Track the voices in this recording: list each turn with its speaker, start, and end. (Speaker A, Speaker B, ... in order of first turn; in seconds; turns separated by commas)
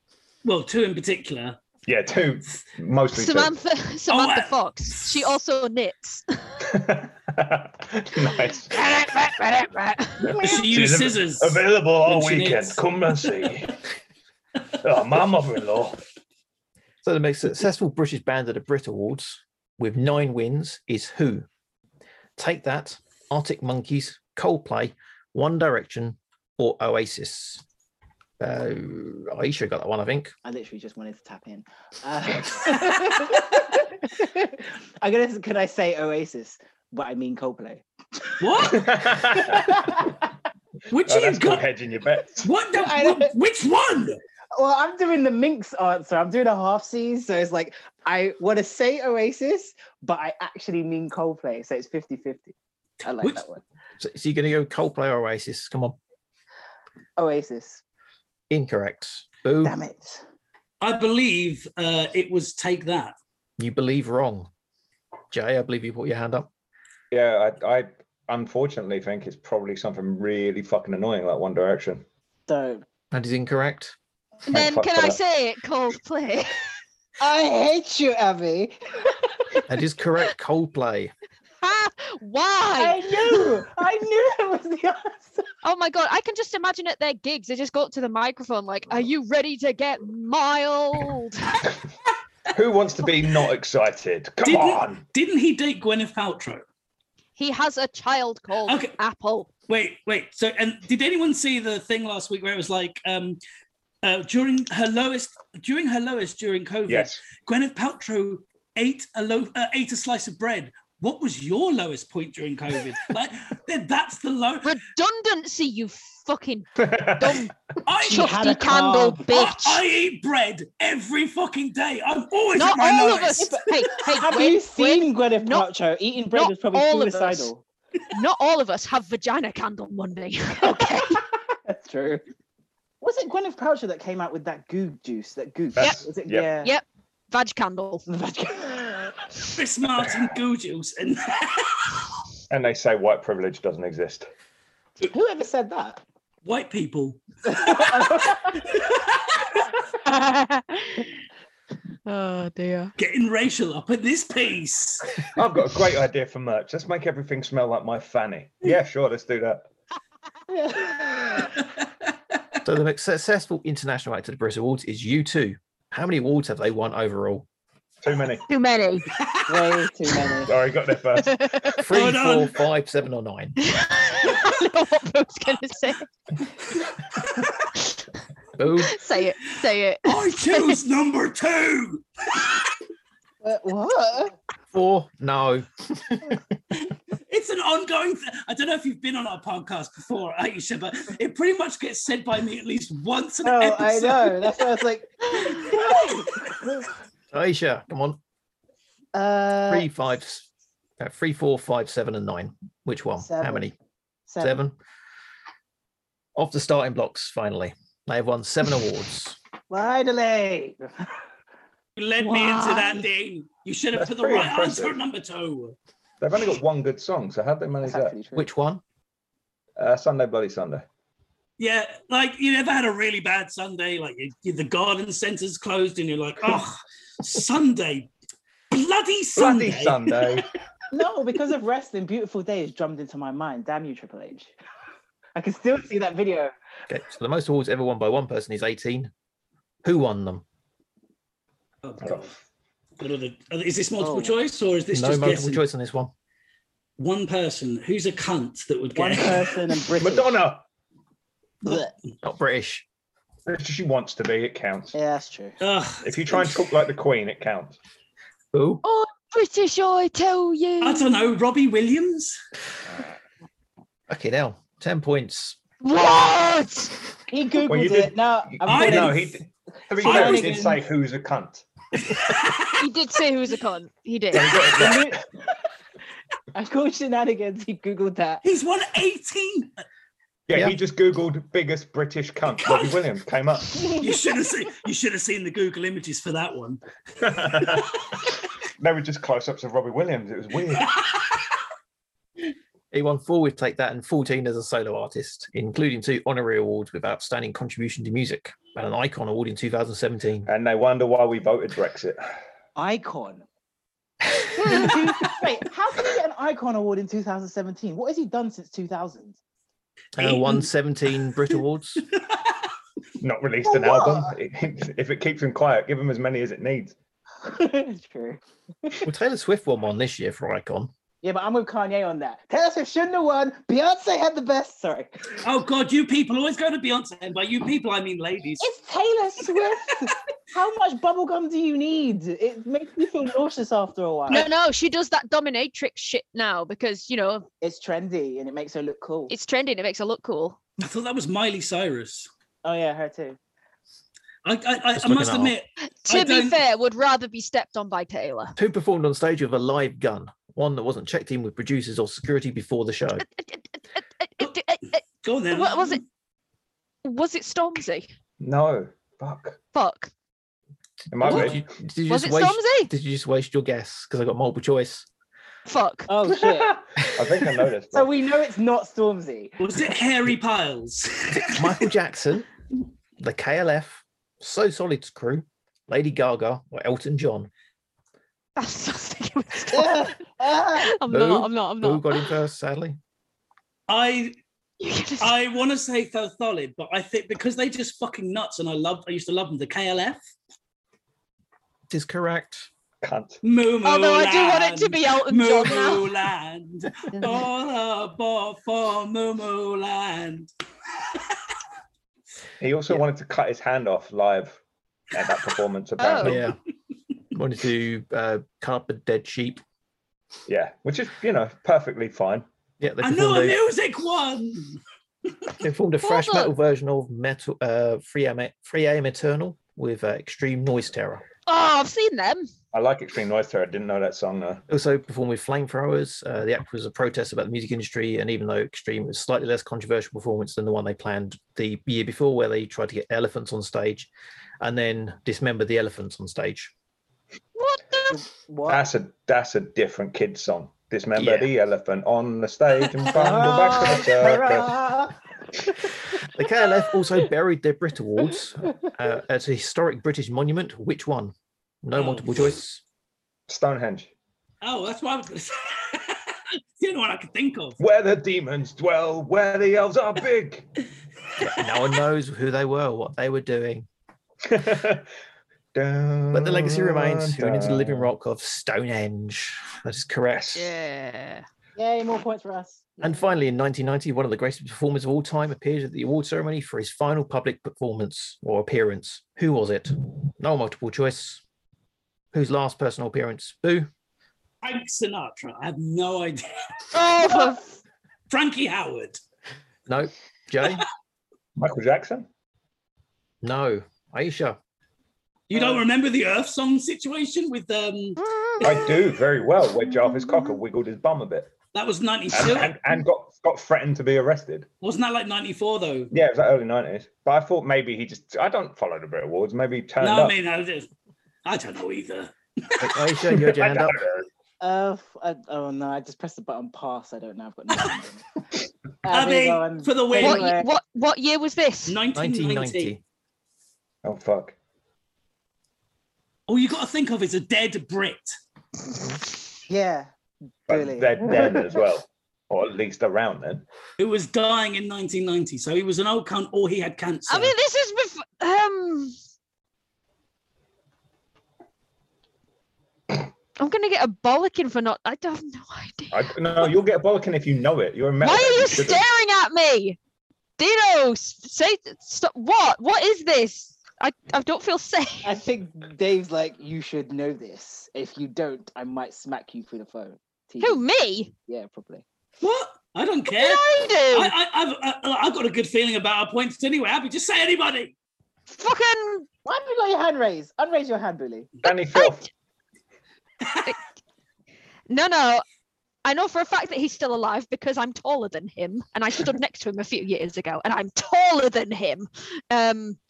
Speaker A: 0.4-1.6, Speaker B: 1.9-3.5, Speaker C: 3.1-6.5, Speaker A: 4.1-5.1, Speaker B: 6.7-8.7, Speaker C: 8.7-10.5, Speaker B: 10.2-13.8, Speaker A: 10.4-13.4, Speaker B: 14.8-16.0, Speaker D: 17.0-21.4, Speaker D: 22.4-27.6, Speaker D: 28.4-30.3, Speaker E: 30.4-38.7, Speaker A: 38.4-38.9, Speaker B: 38.7-39.7, Speaker E: 39.3-40.2, Speaker A: 40.9-41.6, Speaker B: 41.0-42.5, Speaker A: 42.4-44.2, Speaker E: 42.7-43.3, Speaker E: 44.5-53.6, Speaker A: 53.1-53.4, Speaker D: 54.0-56.0, Speaker E: 57.2-57.8, Speaker D: 58.5-59.8, Speaker E: 59.6-60.2, Speaker A: 60.8-63.1, Speaker D: 63.6-64.5, Speaker D: 65.3-66.5, Speaker B: 67.1-72.0, Speaker E: 72.5-72.8, Speaker D: 73.1-73.9, Speaker C: 74.5-76.6, Speaker B: 74.5-75.2, Speaker E: 77.2-79.6, Speaker D: 79.7-81.1, Speaker C: 81.6-83.5, Speaker E: 82.8-85.4, Speaker C: 85.6-91.7, Speaker B: 92.5-95.0, Speaker A: 94.4-96.6, Speaker C: 97.4-99.5, Speaker A: 98.7-99.0, Speaker A: 99.7-103.4, Speaker A: 104.0-114.7, Speaker B: 106.9-107.2, Speaker C: 114.6-119.8, Speaker B: 116.8-117.4, Speaker A: 117.8-118.4, Speaker E: 118.0-119.3, Speaker A: 119.3-123.6, Speaker C: 122.5-125.7, Speaker E: 123.4-127.6, Speaker C: 126.3-127.5, Speaker C: 128.1-131.2, Speaker E: 130.7-132.2, Speaker E: 133.0-136.7, Speaker B: 135.8-136.5, Speaker C: 136.6-138.1, Speaker E: 138.1-139.2, Speaker A: 139.5-142.0, Speaker B: 142.5-144.3, Speaker E: 145.1-146.0, Speaker A: 146.4-149.5, Speaker E: 147.5-148.7, Speaker C: 150.2-151.0, Speaker C: 152.1-152.9, Speaker A: 153.0-155.2, Speaker B: 155.3-159.7, Speaker E: 160.5-161.6, Speaker D: 162.6-167.4, Speaker B: 168.0-168.4, Speaker C: 168.5-169.1, Speaker A: 169.2-169.8, Speaker E: 169.5-170.5, Speaker B: 170.5-171.8, Speaker D: 171.8-173.6, Speaker A: 171.8-172.5, Speaker C: 173.6-176.1, Speaker D: 178.6-179.0, Speaker C: 178.8-180.8, Speaker A: 180.0-182.4, Speaker E: 183.4-184.3, Speaker D: 184.7-186.4, Speaker A: 187.3-194.7, Speaker E: 193.4-196.9, Speaker D: 197.3-198.2, Speaker E: 199.1-199.9, Speaker D: 199.7-200.5, Speaker D: 201.0-203.7, Speaker E: 203.2-203.7, Speaker E: 204.3-204.6, Speaker D: 204.4-204.8, Speaker D: 206.3-209.4, Speaker E: 209.7-211.1, Speaker A: 212.0-215.8, Speaker C: 212.2-213.0, Speaker B: 213.9-215.0, Speaker B: 216.2-218.2, Speaker E: 217.8-218.5, Speaker D: 218.3-218.8, Speaker B: 219.8-220.8, Speaker A: 221.6-228.1, Speaker A: 228.7-230.4, Speaker B: 229.3-230.5, Speaker E: 230.9-234.5, Speaker E: 235.3-236.5, Speaker D: 236.9-239.1, Speaker D: 239.8-240.4, Speaker A: 241.8-242.3, Speaker B: 242.0-242.3, Speaker A: 243.0-245.6, Speaker E: 244.0-244.4, Speaker D: 244.9-246.1, Speaker A: 247.0-249.6, Speaker E: 248.9-250.4, Speaker B: 250.0-250.6, Speaker E: 251.6-251.9, Speaker D: 252.2-252.8, Speaker B: 253.4-254.9, Speaker E: 254.9-255.6, Speaker A: 255.6-256.6, Speaker B: 256.0-257.8, Speaker D: 258.5-258.8, Speaker C: 258.8-261.1, Speaker A: 260.8-262.4, Speaker D: 264.1-265.6, Speaker C: 265.8-266.9, Speaker E: 267.3-269.3, Speaker B: 267.6-271.7, Speaker A: 268.6-269.3, Speaker A: 270.0-270.8, Speaker E: 270.0-270.6, Speaker A: 272.1-272.7, Speaker C: 272.7-274.7, Speaker B: 274.3-275.2, Speaker E: 274.7-275.2, Speaker E: 276.5-278.4, Speaker A: 278.4-279.8, Speaker B: 280.5-283.9, Speaker A: 283.9-286.8, Speaker B: 287.2-288.0, Speaker B: 288.8-290.9, Speaker D: 292.9-300.5, Speaker B: 300.4-302.2, Speaker E: 302.8-303.4, Speaker E: 304.6-309.4, Speaker D: 310.1-312.0, Speaker A: 310.2-310.7, Speaker B: 313.2-316.9, Speaker E: 313.6-314.3, Speaker E: 317.4-319.0, Speaker D: 319.0-320.9, Speaker E: 321.2-325.3, Speaker A: 325.4-328.7, Speaker E: 328.6-334.5, Speaker C: 334.3-337.5, Speaker E: 337.6-339.3, Speaker C: 339.3-340.6, Speaker A: 340.8-342.3, Speaker E: 342.6-343.4, Speaker A: 344.4-346.6, Speaker D: 344.9-345.5, Speaker C: 345.8-348.5, Speaker D: 348.6-353.2, Speaker C: 354.2-356.0, Speaker A: 355.2-356.0, Speaker C: 357.0-358.1, Speaker B: 358.4-359.6, Speaker C: 359.7-360.1, Speaker B: 361.1-361.7, Speaker D: 361.1-365.1, Speaker C: 362.1-362.9, Speaker C: 365.7-366.1, Speaker E: 366.1-367.0, Speaker B: 366.9-368.1, Speaker E: 367.9-369.6, Speaker A: 369.6-371.9, Speaker D: 371.3-372.5, Speaker D: 373.2-377.5, Speaker C: 378.6-380.1, Speaker E: 379.7-380.9, Speaker C: 380.8-382.3, Speaker D: 381.1-383.0, Speaker A: 383.9-384.4, Speaker C: 384.8-385.3, Speaker A: 385.2-390.2, Speaker D: 391.9-392.7, Speaker B: 393.0-393.4, Speaker A: 393.4-400.5, Speaker C: 393.8-396.1, Speaker B: 402.6-404.6, Speaker B: 405.1-406.4, Speaker C: 406.0-406.4, Speaker D: 406.2-406.6, Speaker D: 407.3-409.6, Speaker B: 410.5-412.4, Speaker D: 412.8-413.6, Speaker A: 413.0-414.8, Speaker D: 415.6-421.2, Speaker C: 416.0-416.5, Speaker C: 421.5-422.5, Speaker B: 422.7-424.6, Speaker D: 424.7-434.1, Speaker D: 434.6-436.7, Speaker C: 437.6-438.2, Speaker E: 438.1-438.9, Speaker B: 438.7-444.7, Speaker D: 441.1-441.5, Speaker E: 443.1-446.0, Speaker D: 446.3-452.8, Speaker A: 451.9-452.4, Speaker B: 453.5-454.1, Speaker A: 454.6-457.8, Speaker B: 457.8-460.7, Speaker D: 461.4-463.9, Speaker B: 464.4-465.1, Speaker B: 465.7-468.1, Speaker D: 466.3-470.5, Speaker B: 470.3-470.6, Speaker C: 470.5-471.4, Speaker E: 471.8-473.1, Speaker D: 473.0-481.4, Speaker D: 482.3-483.9, Speaker A: 484.6-486.4, Speaker C: 486.9-487.7, Speaker A: 488.3-489.2, Speaker D: 489.9-490.9, Speaker B: 491.6-492.3, Speaker D: 493.4-494.6, Speaker A: 495.5-498.2, Speaker E: 495.5-495.8, Speaker C: 498.2-498.9, Speaker B: 498.6-501.5, Speaker A: 501.7-502.8, Speaker B: 502.3-504.7, Speaker A: 504.8-506.1, Speaker B: 506.1-510.3, Speaker A: 510.0-510.9, Speaker A: 511.4-513.2, Speaker D: 512.8-514.0, Speaker B: 513.4-514.3, Speaker E: 514.6-518.2, Speaker E: 519.0-520.7, Speaker A: 519.1-520.5, Speaker C: 520.2-522.0, Speaker A: 521.9-523.0, Speaker D: 522.1-523.0, Speaker B: 524.0-524.5, Speaker A: 526.5-528.3, Speaker E: 529.7-530.1, Speaker E: 530.7-531.7, Speaker B: 530.7-533.6, Speaker A: 534.0-537.5, Speaker C: 537.3-539.1, Speaker C: 543.6-546.6, Speaker B: 546.1-549.0, Speaker C: 548.2-550.0, Speaker C: 550.6-555.3, Speaker E: 555.2-560.8, Speaker C: 560.6-561.3, Speaker E: 561.5-562.0, Speaker A: 562.4-567.9, Speaker C: 563.3-564.3, Speaker C: 568.5-569.3, Speaker E: 569.4-571.6, Speaker B: 571.6-572.3, Speaker C: 571.6-572.3, Speaker C: 574.9-575.4, Speaker C: 576.0-583.0